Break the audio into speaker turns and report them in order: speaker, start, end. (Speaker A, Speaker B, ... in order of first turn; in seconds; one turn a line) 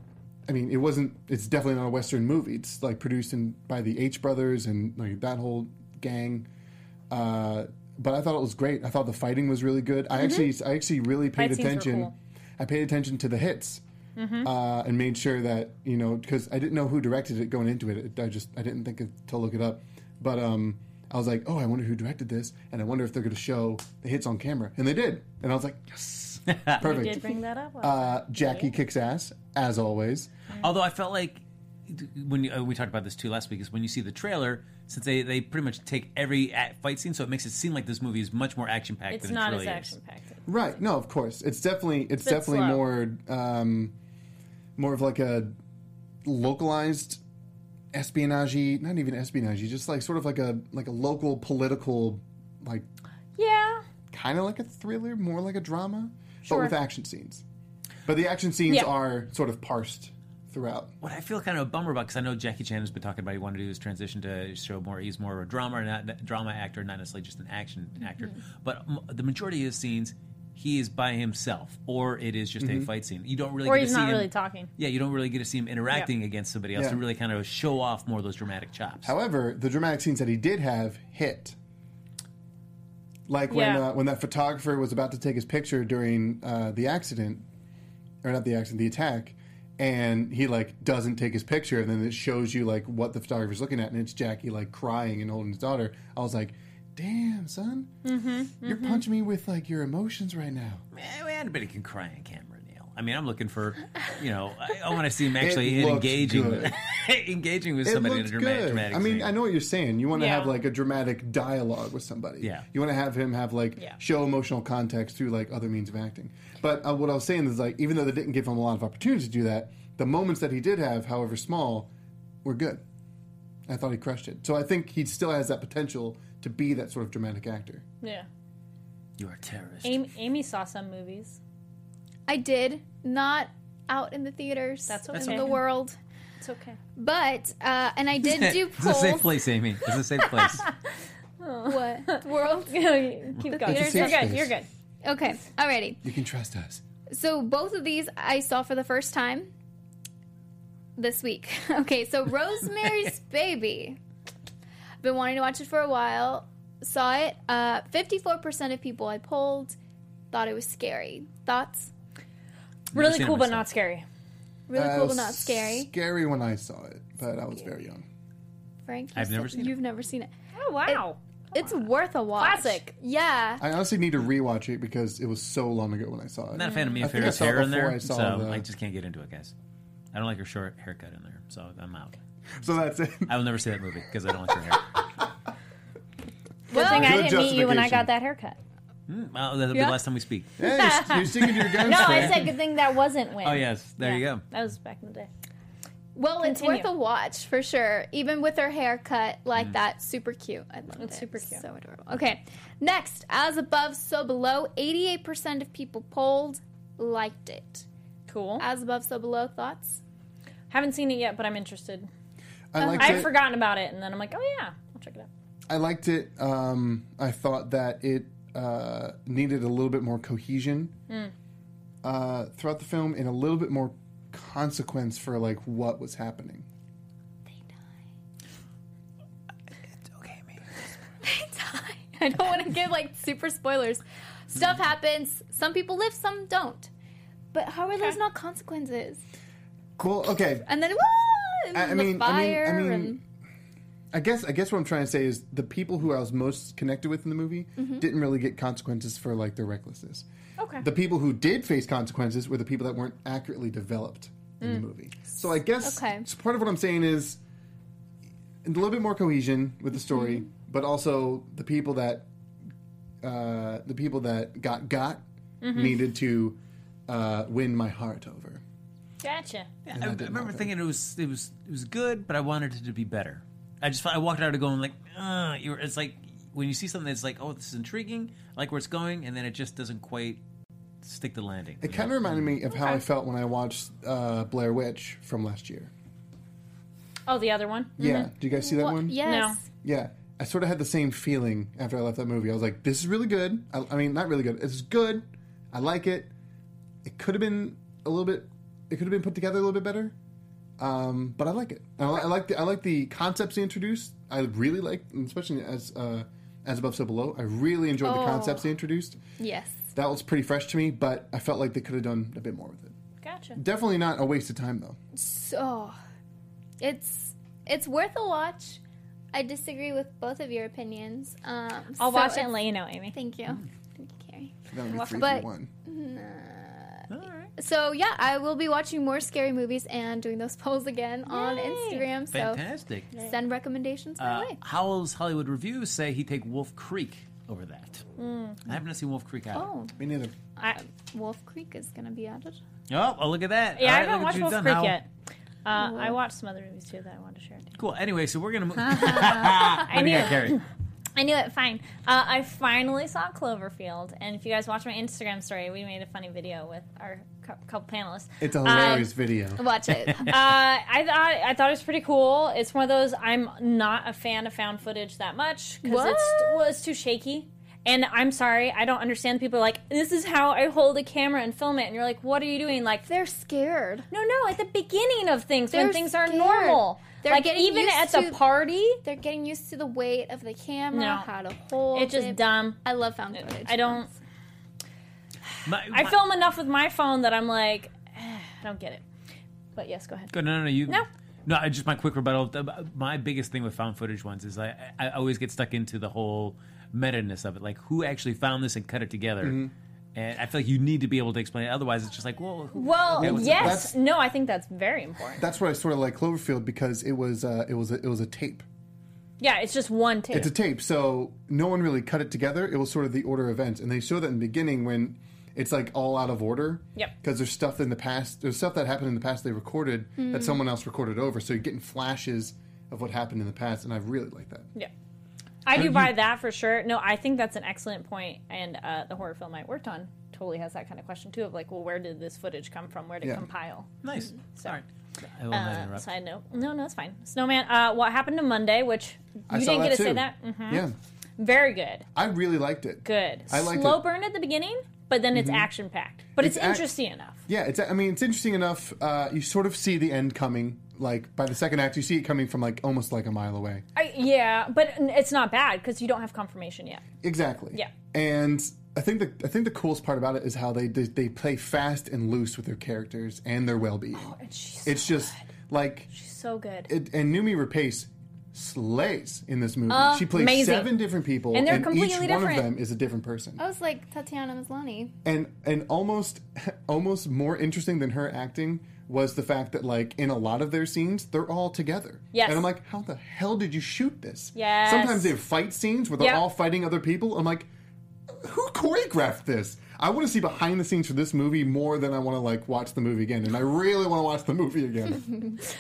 Speaker A: 0.5-6.5
Speaker A: 7.1-13.8
Speaker B: 10.2-10.5
Speaker B: 11.4-12.1
Speaker B: 14.2-14.5
Speaker A: 14.4-30.3
Speaker C: 26.5-26.8
Speaker B: 26.8-28.7
Speaker C: 30.6-39.9
Speaker B: 39.1-40.6
Speaker A: 40.5-44.0
Speaker B: 42.2-42.8
Speaker A: 44.8-45.6
Speaker A: 46.2-47.2
Speaker A: 47.9-52.9
Speaker B: 53.4-53.9
Speaker A: 54.1-57.4
Speaker B: 56.5-56.7
Speaker A: 58.1-60.9
Speaker C: 61.0-79.1
Speaker A: 72.6-72.9
Speaker B: 73.7-74.7
Speaker A: 76.8-77.0
Speaker A: 79.0-81.6
Speaker A: 83.3-87.5
Speaker B: 83.5-83.9
Speaker A: 88.2-97.9
Speaker B: 98.0-99.0
Speaker A: 98.6-100.8
Speaker C: 100.9-109.3
Speaker A: 105.4-106.8
Speaker A: 107.8-121.9
Speaker B: 110.1-110.5
Speaker A: 122.4-122.8
Speaker A: 123.7-127.8
Speaker B: 128.0-128.3
Speaker C: 129.2-130.0
Speaker B: 129.8-131.4
Speaker D: 132.3-136.0
Speaker B: 134.9-135.6
Speaker B: 136.4-136.8
Speaker D: 137.0-139.3
Speaker C: 138.2-140.7
Speaker B: 140.5-140.7
Speaker B: 141.4-144.7
Speaker D: 141.7-142.8
Speaker A: 143.6-144.5
Speaker D: 143.7-144.3
Speaker D: 145.0-146.0
Speaker A: 146.0-146.8
Speaker D: 147.1-149.5
Speaker D: 151.0-154.0
Speaker D: 155.0-159.8
Speaker D: 160.3-161.9
Speaker C: 162.9-163.7
Speaker B: 162.9-164.1
Speaker D: 164.7-165.9
Speaker A: 164.7-168.1
Speaker D: 168.9-170.3
Speaker C: 169.2-169.8
Speaker B: 170.6-172.9
Speaker D: 171.6-173.6
Speaker A: 173.6-178.6
Speaker C: 176.5-179.5
Speaker B: 176.6-177.0
Speaker C: 180.1-182.2
Speaker A: 182.6-183.3
Speaker C: 183.3-184.9
Speaker B: 186.7-188.6
Speaker D: 186.7-187.2
Speaker A: 186.7-188.1
Speaker C: 189.1-190.5
Speaker A: 190.6-192.5
Speaker B: 190.6-195.3
Speaker C: 191.9-192.5
Speaker C: 193.4-194.4
Speaker D: 196.2-207.8
Speaker B: 196.4-196.9
Speaker B: 201.0-201.6
Speaker B: 208.3-208.6
Speaker D: 208.6-210.0
Speaker B: 210.7-212.1
Speaker A: 212.7-213.3
Speaker D: 212.8-213.3
Speaker B: 213.0-215.3
Speaker A: 215.7-220.9
Speaker A: 222.0-226.7
Speaker C: 230.0-230.6
Speaker D: 231.2-236.9
Speaker D: 237.5-239.2
Speaker B: 237.9-238.2
Speaker A: 240.0-240.7
Speaker D: 240.7-243.2
Speaker A: 241.7-243.2
Speaker A: 244.1-250.3
Speaker D: 247.8-248.0
Speaker B: 250.6-250.9
Speaker A: 250.8-257.4
Speaker D: 255.8-256.2
Speaker A: 258.6-262.3
Speaker A: 263.2-268.6
Speaker B: 265.6-266.0
Speaker B: 269.2-269.7
Speaker C: 269.9-280.4
Speaker A: 269.9-270.7
Speaker C: 281.0-282.6
Speaker A: 281.8-285.9
Speaker B: 282.7-283.0
Speaker B: 287.3-288.3
Speaker A: 288.0-289.2
Speaker D: 288.5-289.6
Speaker B: 289.2-289.6
Speaker A: 289.8-296.3
Speaker A: 297.0-300.1
Speaker A: 300.8-309.2
Speaker D: 308.0-308.6
Speaker D: 309.4-309.8
Speaker A: 309.9-312.9
Speaker B: 313.2-313.6
Speaker A: 313.6-315.0
Speaker D: 315.1-316.0
Speaker D: 316.8-318.8
Speaker D: 319.3-332.6
Speaker B: 322.0-323.1
Speaker A: 324.7-325.7
Speaker B: 324.9-325.4
Speaker C: 327.1-327.5
Speaker B: 331.3-332.1
Speaker C: 332.3-333.1
Speaker D: 333.2-334.6
Speaker C: 334.2-338.1
Speaker B: 338.2-338.6
Speaker C: 338.6-339.7
Speaker D: 339.5-340.0
Speaker A: 340.0-340.4
Speaker D: 340.7-342.6
Speaker C: 342.9-345.0
Speaker B: 343.8-345.1
Speaker B: 345.6-347.7
Speaker D: 345.7-346.2
Speaker C: 347.8-350.6
Speaker B: 349.0-350.6
Speaker D: 349.2-349.5
Speaker B: 351.2-359.1
Speaker A: 358.4-359.6
Speaker D: 358.7-360.4
Speaker B: 360.2-373.1
Speaker D: 365.8-366.6
Speaker D: 373.1-374.1
Speaker B: 374.1-379.0
Speaker D: 375.7-378.4
Speaker D: 379.0-384.1
Speaker B: 380.9-381.3
Speaker B: 381.9-382.8
Speaker B: 383.3-384.1
Speaker C: 385.7-386.2
Speaker B: 385.9-389.1
Speaker B: 389.8-390.3
Speaker C: 390.3-399.6
Speaker A: 399.4-399.7
Speaker C: 400.1-403.9
Speaker B: 402.7-405.4
Speaker A: 403.2-403.9
Speaker A: 405.4-408.6
Speaker B: 409.4-410.5
Speaker A: 410.3-424.7
Speaker D: 420.2-420.6
Speaker B: 425.7-433.9
Speaker A: 425.8-426.1
Speaker C: 434.0-436.1
Speaker B: 435.5-440.9
Speaker A: 439.5-440.9
Speaker B: 441.4-442.1
Speaker A: 442.2-444.0
Speaker B: 443.1-447.4
Speaker A: 445.3-445.7
Speaker A: 446.4-446.9
Speaker A: 447.5-453.8
Speaker B: 454.0-457.0
Speaker A: 457.2-466.1
Speaker B: 464.2-465.4
Speaker B: 466.1-466.9
Speaker A: 466.9-473.6
Speaker B: 469.9-470.9
Speaker B: 471.5-472.7
Speaker D: 473.6-475.1
Speaker A: 475.2-487.7
Speaker B: 482.3-482.7
Speaker B: 484.6-485.4
Speaker B: 486.2-486.4
Speaker A: 488.3-495.5